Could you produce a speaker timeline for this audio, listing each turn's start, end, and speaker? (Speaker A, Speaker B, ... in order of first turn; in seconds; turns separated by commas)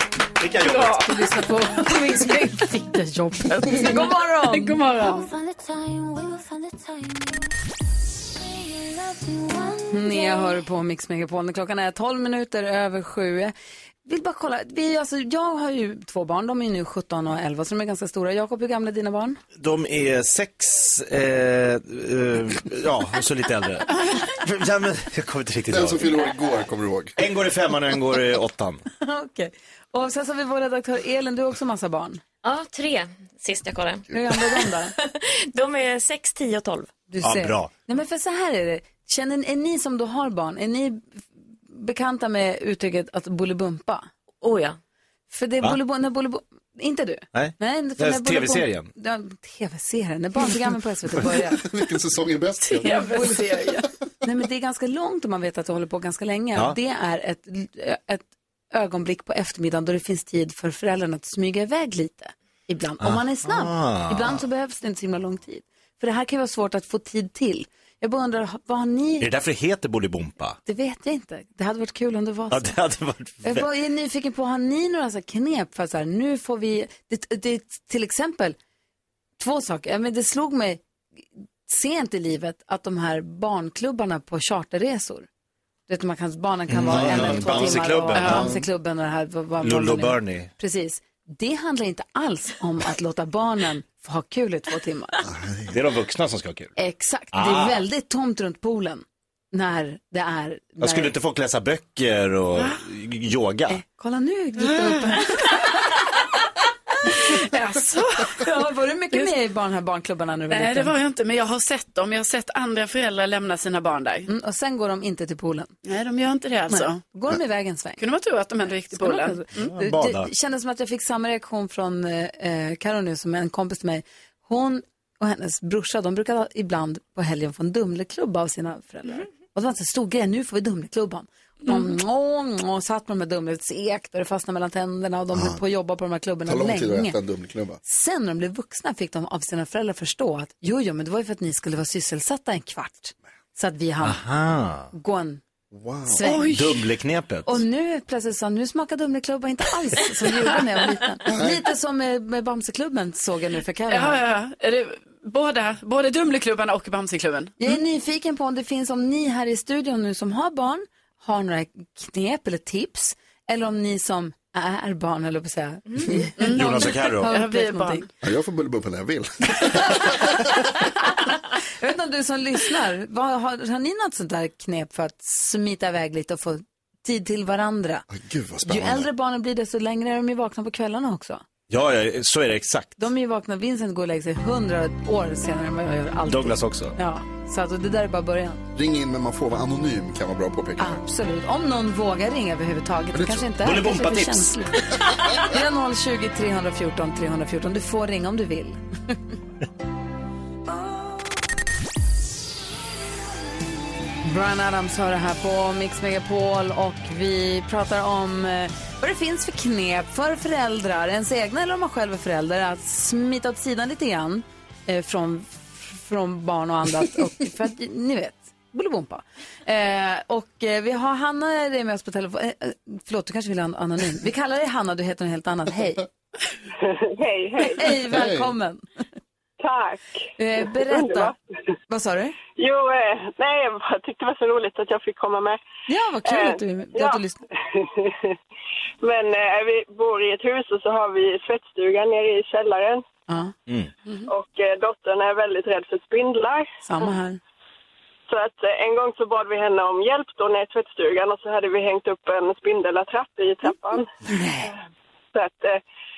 Speaker A: 0.4-1.1, Speaker B: 0.6-1.5, Speaker C: 1.0-4.8, Speaker B: 3.6-5.3, Speaker D: 5.4-7.4, Speaker D: 9.7-10.5, Speaker C: 9.9-13.5, Speaker C: 14.0-19.4, Speaker A: 19.6-26.1, Speaker E: 25.7-27.2, Speaker A: 27.2-28.8, Speaker C: 29.0-32.2, Speaker D: 32.4-36.9, Speaker C: 34.1-34.9, Speaker C: 37.1-41.2, Speaker A: 37.2-37.7, Speaker C: 41.7-44.1, Speaker D: 44.4-44.8, Speaker C: 45.3-51.6, Speaker A: 47.3-48.9, Speaker E: 51.5-53.0, Speaker B: 52.6-53.8, Speaker C: 52.8-69.3, Speaker A: 63.0-64.4, Speaker A: 69.2-70.6, Speaker C: 70.7-72.7, Speaker A: 72.5-73.7, Speaker C: 73.4-78.5, Speaker C: 79.4-80.8, Speaker C: 81.7-85.3, Speaker C: 85.9-95.2, Speaker A: 86.7-88.5, Speaker B: 88.2-88.5, Speaker E: 88.3-88.5, Speaker A: 89.6-90.5, Speaker E: 95.2-95.7, Speaker A: 95.7-96.7, Speaker C: 96.8-101.1, Speaker A: 97.3-97.8, Speaker A: 100.8-103.8, Speaker C: 103.7-105.7, Speaker B: 104.7-105.2, Speaker C: 107.0-107.4, Speaker B: 107.1-108.5, Speaker C: 108.3-110.9, Speaker B: 110.5-114.3, Speaker C: 114.3-115.7, Speaker B: 115.8-117.0, Speaker C: 116.7-118.0, Speaker B: 118.0-119.5, Speaker C: 118.9-137.2, Speaker A: 119.6-120.3, Speaker E: 135.3-135.6, Speaker E: 136.4-137.8, Speaker C: 137.8-144.2, Speaker A: 144.0-144.9, Speaker C: 144.9-145.4, Speaker E: 145.7-146.2, Speaker C: 146.1-146.5, Speaker B: 146.2-146.8, Speaker A: 146.5-147.6, Speaker C: 147.4-154.2, Speaker E: 151.3-151.6, Speaker B: 153.9-157.7, Speaker C: 157.6-168.1, Speaker B: 166.4-168.1, Speaker A: 166.5-167.3, Speaker E: 168.2-170.1, Speaker C: 171.8-178.1, Speaker E: 178.1-179.1, Speaker C: 178.6-181.4, Speaker A: 181.7-183.0, Speaker C: 183.0-188.6, Speaker A: 186.3-186.9, Speaker E: 188.7-191.0, Speaker C: 190.8-199.2, Speaker E: 193.1-193.5, Speaker A: 193.6-194.6, Speaker C: 204.2-226.1, Speaker F: 226.8-228.0, Speaker C: 227.6-228.8, Speaker E: 228.1-228.5, Speaker F: 229.6-231.4, Speaker C: 230.4-231.3, Speaker C: 231.9-232.3, Speaker F: 232.6-235.6, Speaker C: 235.9-237.4, Speaker F: 236.2-237.2, Speaker F: 237.7-238.3, Speaker F: 239.0-243.0, Speaker C: 243.3-243.5, Speaker F: 244.3-246.7, Speaker C: 246.8-247.4, Speaker F: 248.3-254.1, Speaker C: 254.3-254.7, Speaker F: 255.3-255.8